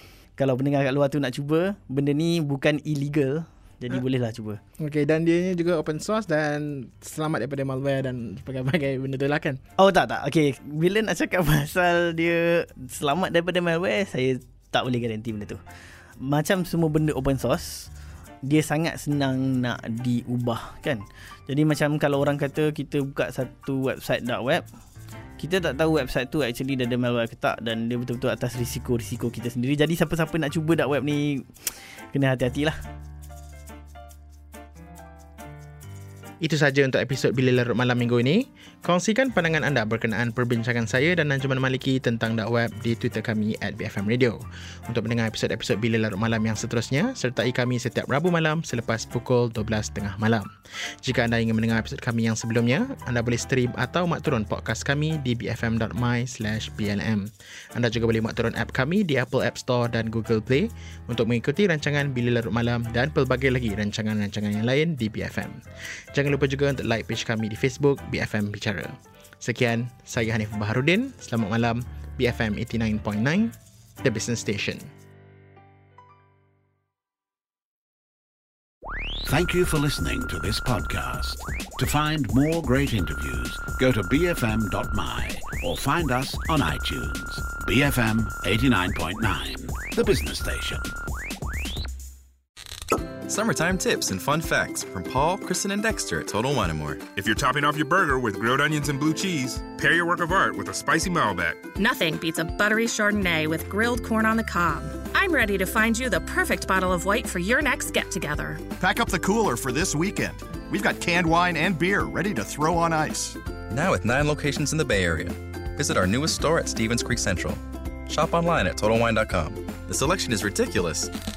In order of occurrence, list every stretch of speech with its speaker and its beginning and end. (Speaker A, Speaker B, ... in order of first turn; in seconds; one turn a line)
Speaker A: 0.4-4.6
Speaker B: 4.8-9.6
Speaker A: 9.8-15.6
Speaker A: 16.2-17.9
Speaker A: 18.4-24.6
Speaker A: 25.4-32.8
Speaker B: 36.4-50.5
Speaker B: 51.0-74.9
Speaker C: 79.2-90.9
Speaker D: 93.3-97.0
Speaker E: 97.2-101.6
Speaker F: 101.8-108.6
Speaker G: 108.8-113.4
Speaker D: 113.7-121.1